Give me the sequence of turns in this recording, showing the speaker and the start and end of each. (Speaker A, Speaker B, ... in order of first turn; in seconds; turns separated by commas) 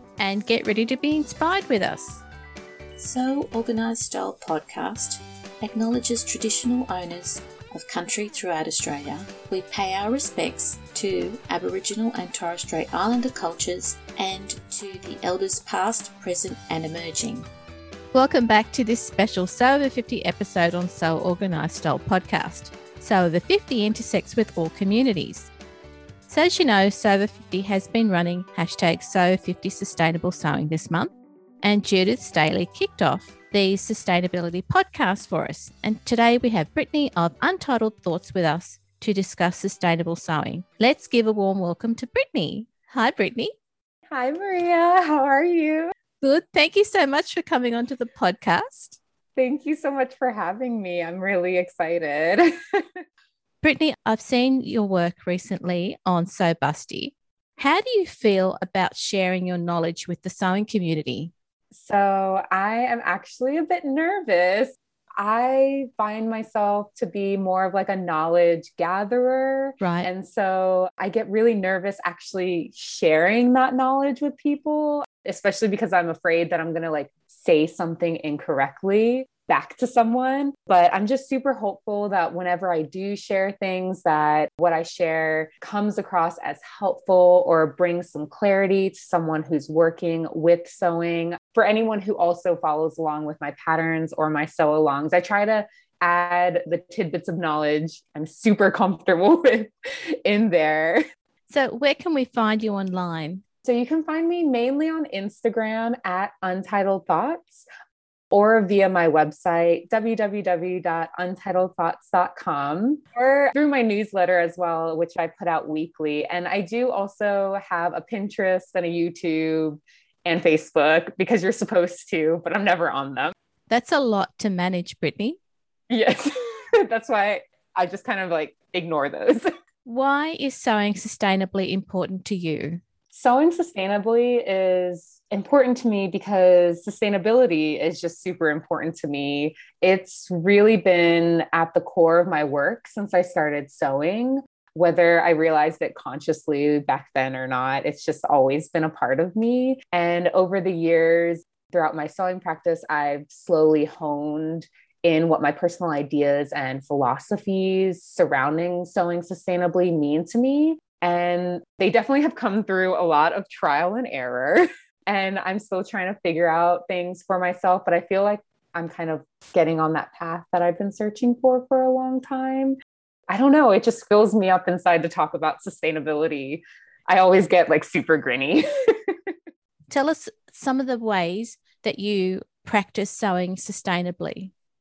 Speaker A: 0.2-2.2, Speaker B: 3.0-17.4, Speaker A: 18.1-25.5, Speaker A: 26.3-31.1, Speaker A: 31.6-43.5, Speaker C: 44.1-45.9, Speaker A: 46.2-49.0, Speaker C: 49.4-52.8, Speaker A: 53.6-61.3, Speaker C: 61.7-99.7, Speaker A: 69.8-70.1, Speaker C: 100.2-101.0, Speaker A: 101.5-103.4, Speaker C: 103.6-107.7, Speaker C: 108.3-123.3, Speaker A: 123.7-125.4, Speaker C: 125.9-129.4, Speaker A: 129.8-132.8, Speaker C: 133.1-172.8, Speaker C: 173.3-179.2, Speaker A: 179.9-184.5